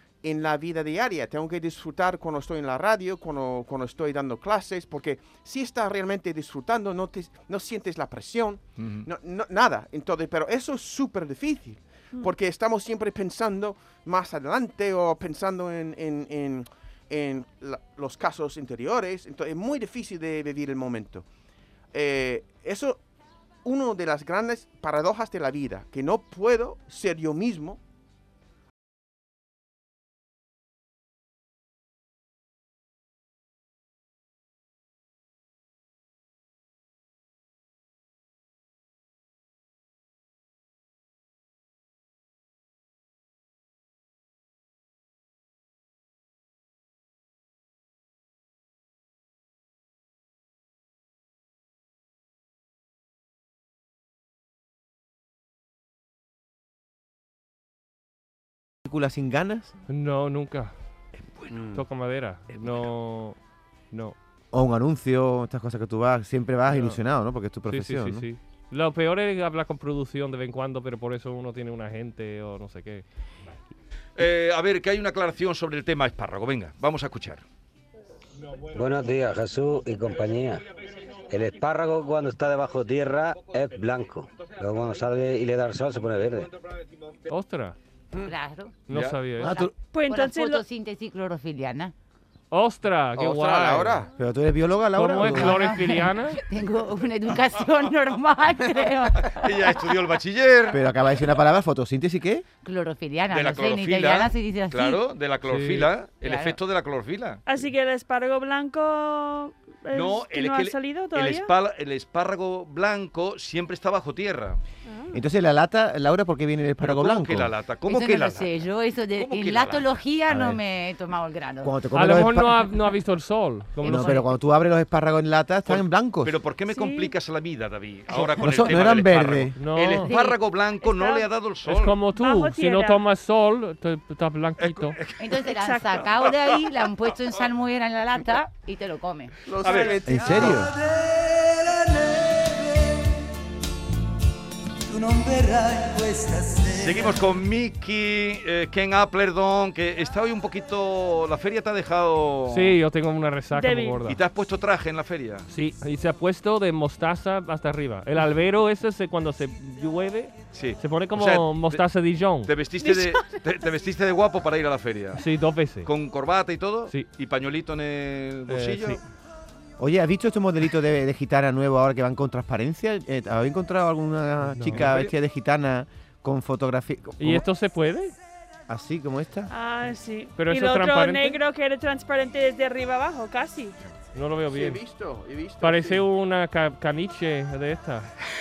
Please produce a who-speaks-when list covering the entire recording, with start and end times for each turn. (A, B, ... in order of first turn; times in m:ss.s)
0:00.2-0:21.2 A
0:08.8-0:09.1 B
0:21.9-0:23.0 A
0:23.6-0:27.8 A
0:58.8-0:59.7 C
0:59.9-1:00.7 D
1:01.5-1:01.8 A
1:01.7-1:03.4 D
1:03.9-1:04.2 D
1:04.5-1:08.3 C
1:06.7-1:07.0 D
1:07.7-1:13.0 D
1:14.2-1:17.4 B
1:18.7-1:20.7 E
1:21.3-1:26.6 E
1:27.3-1:27.8 D
1:28.2-1:28.7 F
1:28.9-1:29.6 D
1:28.9-1:29.2 B
1:29.4-1:29.7 C
1:29.4-1:31.9 F
1:29.9-1:30.6 G
1:32.5-1:34.0 D
1:33.2-1:34.1 A
1:34.2-1:35.7 C
1:34.9-1:36.4 D
1:35.2-1:39.9 F
1:39.2-1:40.8 B
1:40.7-1:42.4 C
1:42.6-1:45.0 F
1:43.3-1:47.4 B
1:45.4-1:45.9 D
1:46.2-1:46.6 F
1:47.5-1:51.5 G
1:49.9-1:54.6 B
1:54.8-1:55.2 G
1:55.1-1:57.5 C
1:56.8-2:00.0 B
1:57.9-2:01.8 F
2:00.3-2:00.6 C
2:01.6-2:02.7 C
2:01.9-2:04.2 D
2:03.8-2:04.3 F
2:03.8-2:06.4 C
2:05.6-2:12.0 B
2:06.7-2:07.1 G
2:08.1-2:09.6 C
2:09.6-2:10.1 D
2:10.0-2:10.4 F
2:10.8-2:11.3 G
2:11.6-2:15.0 D
2:12.1-2:13.0 G
2:14.6-2:15.4 B
2:15.2-2:19.4 F
2:15.5-2:15.9 G
2:16.0-2:16.6 B
2:19.4-2:20.7 A
2:19.6-2:22.5 B
2:19.6-2:20.0 G
2:20.0-2:20.7 C
2:24.9-2:32.8 B
2:32.5-2:34.2 D
2:33.5-2:34.0 G
2:34.1-2:35.5 B
2:35.5-2:42.5 D
2:40.5-2:41.8 B
2:42.4-2:45.2 B
2:42.8-2:43.4 G
2:45.2-2:45.9 D
2:45.8-2:49.0 B
2:48.5-2:49.0 D
2:49.8-2:57.4 C
2:54.4-2:54.9 D
2:54.7-2:55.1 B
2:57.2-2:58.1 D
2:58.7-2:59.5 C
2:59.5-3:03.8 G
3:00.4-3:01.4 D
3:04.1-3:04.8 D
3:04.5-3:06.0 A
3:05.6-3:08.1 D